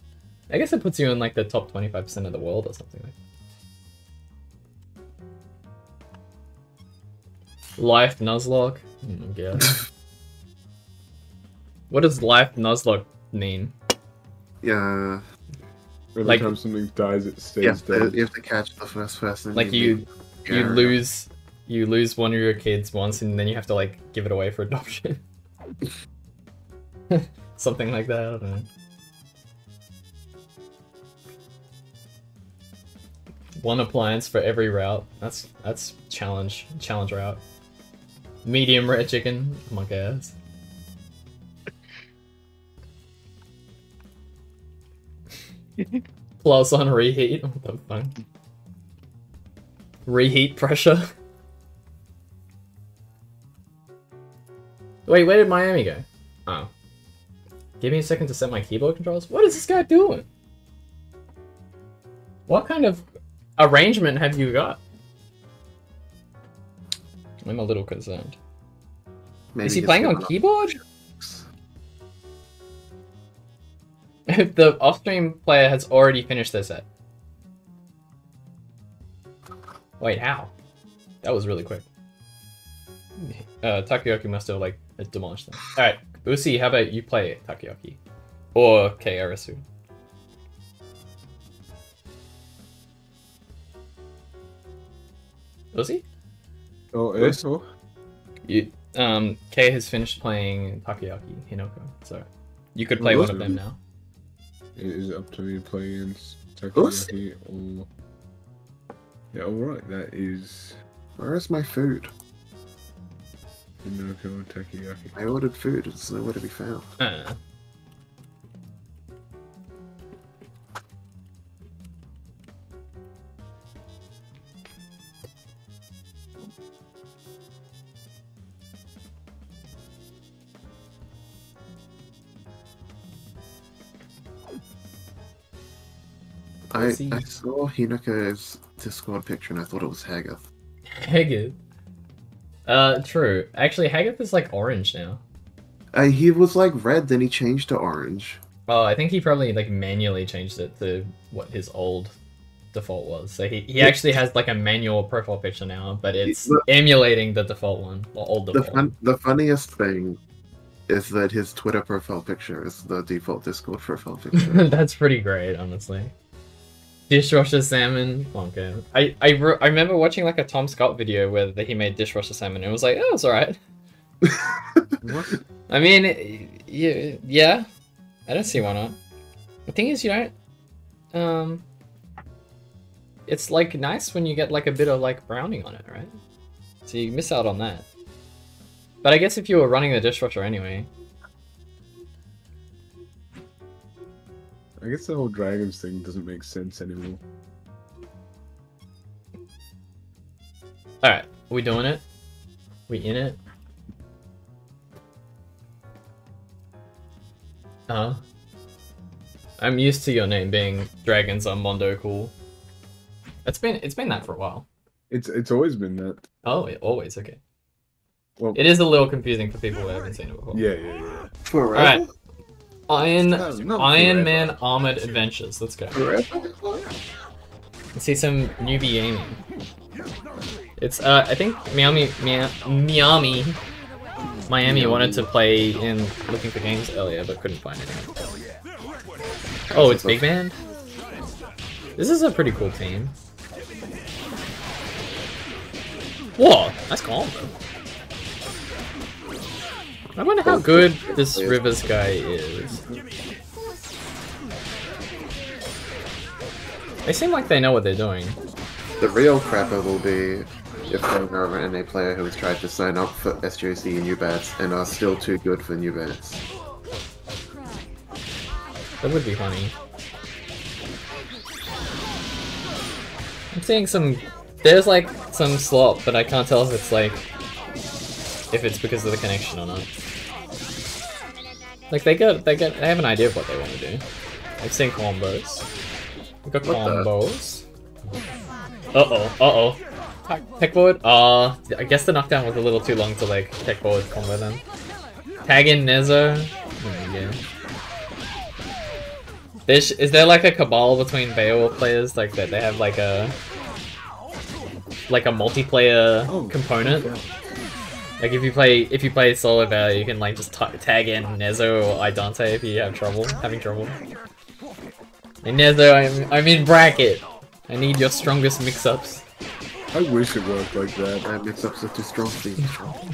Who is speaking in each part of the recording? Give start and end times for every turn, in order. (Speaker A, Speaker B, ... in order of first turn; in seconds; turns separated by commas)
Speaker A: 0.5-3.1, Speaker A: 7.8-9.8, Speaker A: 11.9-13.7, Speaker B: 14.6-15.2, Speaker C: 16.1-18.2, Speaker A: 16.2-16.5, Speaker B: 17.6-21.0, Speaker A: 19.5-25.2, Speaker A: 27.1-28.7, Speaker A: 33.6-37.4, Speaker A: 38.4-40.4, Speaker A: 46.4-48.1, Speaker A: 50.0-51.1, Speaker A: 55.0-56.7, Speaker A: 57.8-60.2, Speaker A: 62.5-63.0, Speaker A: 63.6-64.8, Speaker A: 67.4-68.4, Speaker B: 69.5-70.3, Speaker A: 69.6-70.8, Speaker B: 71.2-71.5, Speaker A: 74.3-76.8, Speaker A: 80.0-80.5, Speaker A: 81.2-81.8, Speaker A: 83.2-88.0, Speaker A: 88.5-89.6, Speaker A: 95.7-96.0, Speaker C: 96.9-97.6, Speaker A: 98.4-103.8, Speaker C: 103.0-103.6, Speaker C: 104.8-107.9, Speaker B: 106.7-107.1, Speaker C: 109.3-110.8, Speaker B: 111.2-112.1, Speaker C: 113.8-115.1, Speaker B: 115.1-116.9, Speaker A: 117.0-117.4, Speaker B: 136.7-140.4, Speaker A: 136.8-137.2, Speaker A: 140.9-141.6, Speaker A: 142.7-145.2, Speaker B: 145.9-148.4, Speaker A: 148.7-152.1, Speaker A: 152.7-158.9, Speaker B: 156.2-156.6, Speaker B: 158.5-160.2, Speaker B: 160.9-164.7, Speaker A: 164.3-166.1, Speaker A: 167.1-173.6, Speaker C: 175.0-175.4, Speaker A: 175.7-177.7, Speaker A: 178.3-179.0, Speaker A: 179.7-180.3, Speaker A: 181.1-181.6, Speaker A: 183.3-186.1, Speaker A: 186.8-187.8, Speaker A: 189.0-190.9, Speaker C: 194.8-197.2, Speaker A: 201.0-202.0, Speaker A: 202.9-203.4, Speaker A: 207.9-208.2, Speaker A: 209.6-212.3, Speaker A: 213.4-214.7, Speaker C: 215.1-216.2, Speaker A: 216.4-217.4, Speaker A: 218.5-220.6, Speaker C: 220.5-221.3, Speaker B: 221.4-222.1, Speaker A: 221.7-222.0, Speaker A: 222.9-226.0, Speaker C: 223.3-224.5, Speaker B: 225.9-226.5, Speaker A: 227.9-229.4, Speaker A: 230.8-233.6, Speaker A: 234.5-238.1, Speaker B: 234.6-235.3, Speaker B: 239.7-240.2, Speaker A: 239.7-240.6, Speaker A: 242.0-243.2, Speaker A: 246.4-247.5, Speaker A: 250.2-252.8, Speaker B: 250.4-251.9, Speaker A: 257.0-258.4, Speaker B: 259.0-266.4, Speaker A: 269.0-269.7, Speaker A: 273.5-277.2, Speaker A: 278.5-279.9, Speaker A: 281.9-284.0, Speaker A: 284.6-285.6, Speaker A: 286.4-287.6, Speaker B: 286.6-287.1, Speaker A: 288.9-294.6, Speaker A: 295.4-297.4, Speaker A: 299.7-303.3, Speaker A: 305.1-307.1, Speaker C: 306.3-307.3, Speaker A: 308.2-314.0, Speaker A: 315.4-319.2, Speaker C: 319.9-321.3, Speaker B: 321.2-323.0